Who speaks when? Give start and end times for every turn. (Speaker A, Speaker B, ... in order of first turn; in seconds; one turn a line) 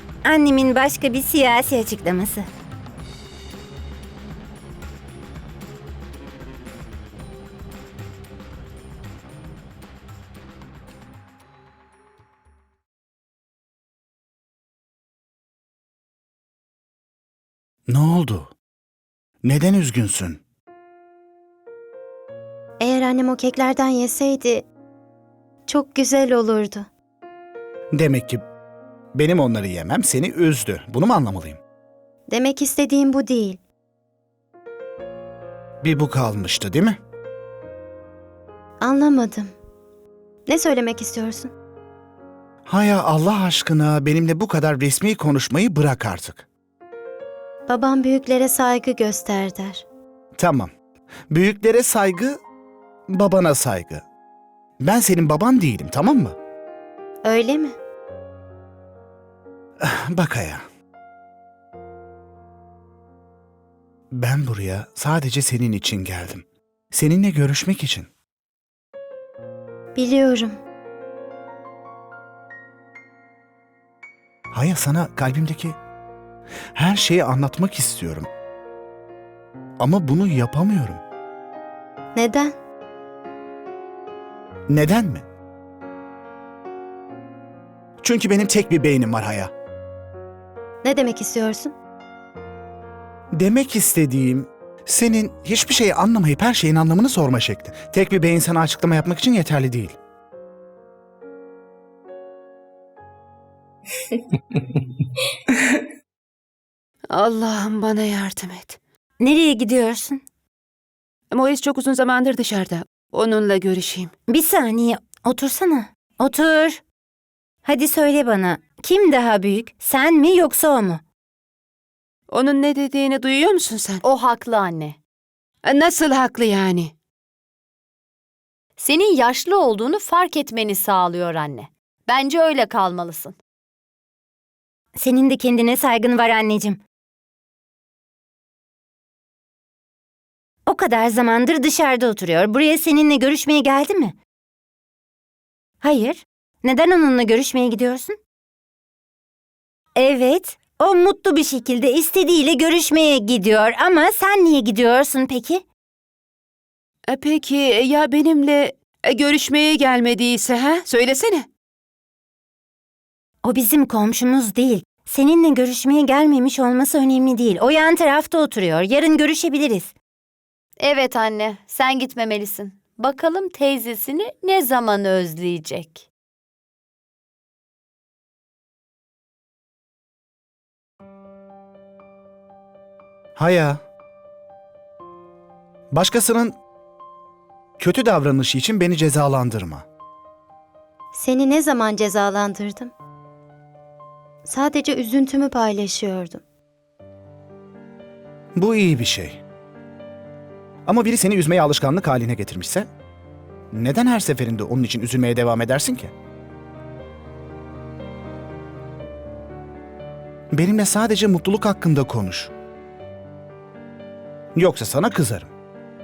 Speaker A: 0.2-2.5
Speaker B: 17.9-18.5
Speaker B: 19.4-20.4
Speaker C: 22.8-24.7
Speaker C: 25.7-26.9
Speaker B: 27.9-28.4
Speaker B: 29.1-31.6
Speaker C: 32.3-33.6
Speaker B: 35.8-37.0
Speaker C: 38.8-39.5
Speaker C: 40.5-41.5
Speaker B: 42.7-46.5
Speaker C: 47.7-49.8
Speaker B: 50.4-50.7
Speaker B: 51.3-52.4
Speaker B: 53.1-54.0
Speaker B: 54.8-56.4
Speaker C: 57.2-57.7
Speaker B: 59.8-60.6
Speaker B: 64.1-68.1
Speaker C: 70.0-70.6
Speaker B: 74.5-75.8
Speaker B: 76.8-78.3
Speaker B: 79.8-81.0
Speaker C: 82.2-82.5
Speaker B: 84.7-85.2
Speaker B: 88.0-89.5
Speaker C: 90.8-91.7
Speaker B: 93.3-100.0
Speaker D: 107.1-108.8
Speaker A: 109.2-110.2
Speaker D: 111.3-114.1
Speaker A: 114.3-116.8
Speaker A: 117.6-121.0
Speaker D: 122.3-124.0
Speaker E: 124.0-125.0
Speaker D: 125.7-126.9
Speaker E: 128.8-133.4
Speaker A: 135.0-136.8
Speaker A: 140.7-144.2
Speaker A: 145.8-148.2
Speaker A: 149.9-155.6
Speaker D: 157.1-161.5
Speaker A: 163.4-169.9
Speaker E: 170.8-176.1
Speaker B: 183.4-183.8
Speaker B: 185.9-186.6
Speaker B: 187.8-189.8
Speaker C: 191.1-192.9
Speaker C: 194.5-196.4
Speaker B: 198.6-199.4
Speaker B: 200.9-202.9
Speaker B: 203.7-206.1
Speaker B: 210.5-212.5
Speaker B: 214.6-215.5